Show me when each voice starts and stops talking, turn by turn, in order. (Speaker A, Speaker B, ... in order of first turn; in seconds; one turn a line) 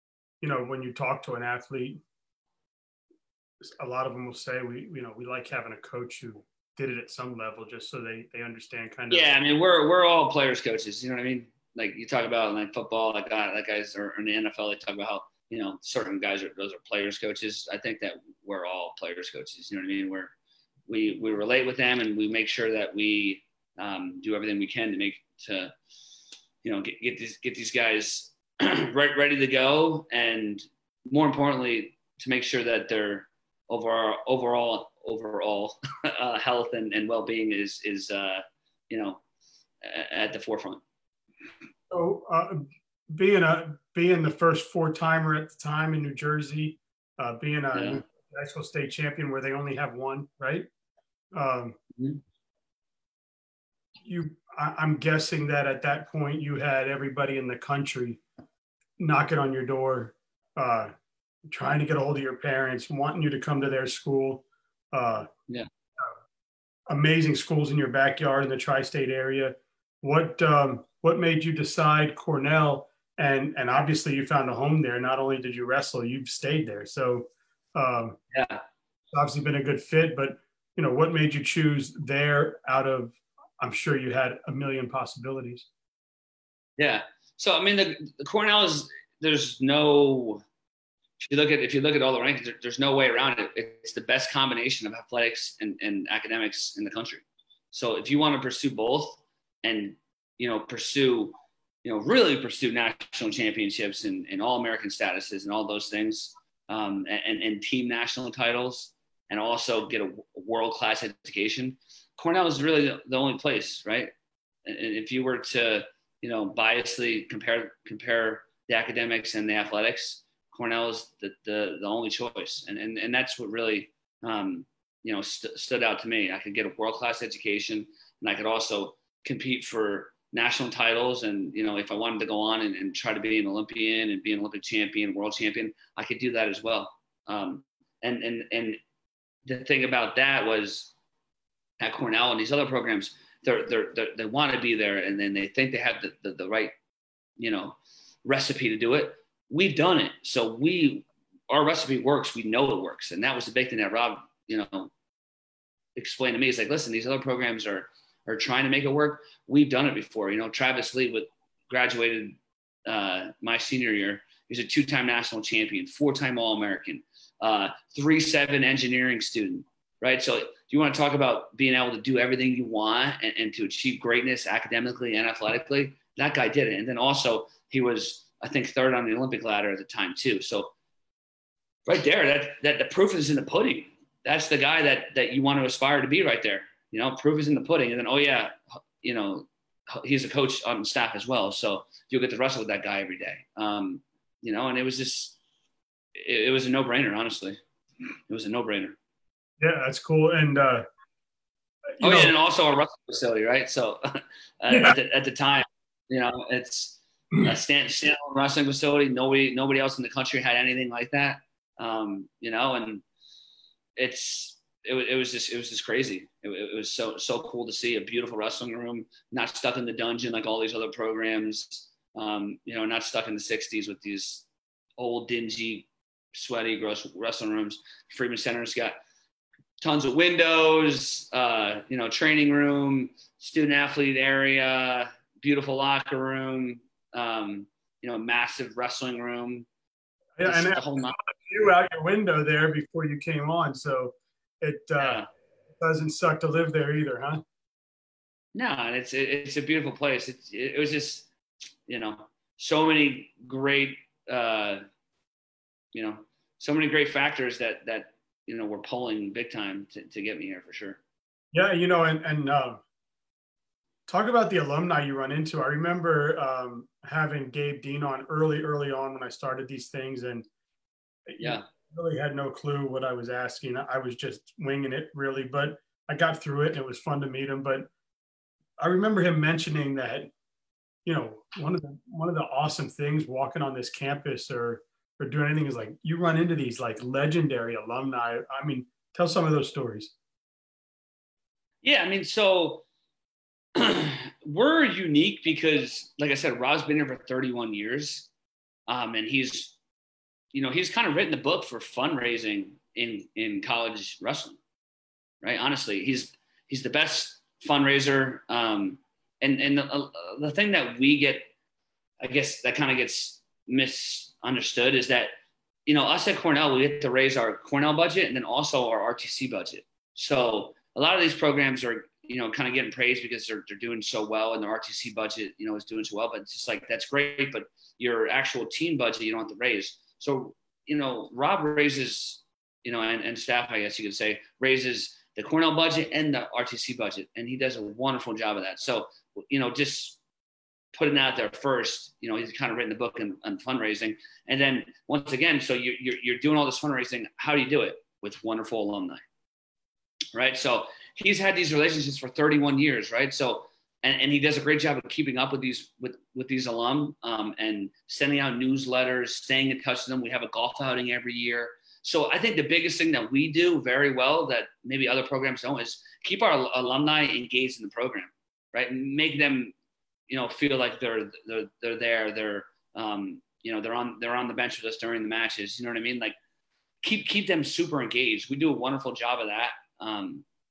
Speaker A: 0.4-2.0
Speaker A: 3.6-9.3
Speaker B: 9.1-20.3
Speaker B: 20.9-25.7
Speaker B: 26.6-39.2
Speaker B: 39.8-40.8
Speaker A: 41.9-50.7
Speaker B: 47.7-48.0
Speaker A: 51.3-51.8
Speaker A: 54.0-58.2
Speaker A: 59.0-60.9
Speaker A: 61.5-65.3
Speaker A: 66.9-78.2
Speaker B: 78.3-78.6
Speaker A: 79.1-85.7
Speaker B: 86.8-90.4
Speaker B: 91.2-114.1
Speaker B: 114.6-138.8
Speaker B: 139.4-140.9
Speaker B: 141.8-146.7
Speaker B: 147.4-154.9
Speaker B: 156.0-180.7
Speaker B: 181.9-195.4
Speaker B: 196.2-197.6
Speaker B: 198.3-199.0
Speaker A: 199.6-200.8
Speaker A: 202.0-202.3
Speaker B: 202.0-213.0
Speaker A: 204.7-204.9
Speaker B: 214.0-224.5
Speaker B: 225.0-229.0
Speaker B: 229.8-239.7
Speaker A: 240.4-245.2
Speaker B: 240.4-241.1
Speaker B: 245.0-245.3
Speaker A: 245.8-247.4
Speaker B: 248.5-251.3
Speaker B: 251.9-254.8
Speaker B: 255.9-261.0
Speaker A: 261.5-262.8
Speaker A: 264.1-270.5
Speaker A: 271.3-277.9
Speaker A: 278.8-280.3
Speaker A: 281.1-290.1
Speaker B: 291.8-292.9
Speaker B: 293.8-298.3
Speaker B: 298.9-299.8
Speaker B: 300.5-304.6
Speaker B: 305.4-311.5
Speaker B: 312.2-315.3
Speaker B: 315.9-340.2
Speaker B: 340.9-349.2
Speaker B: 350.3-369.8
Speaker B: 370.3-376.4
Speaker B: 377.0-380.4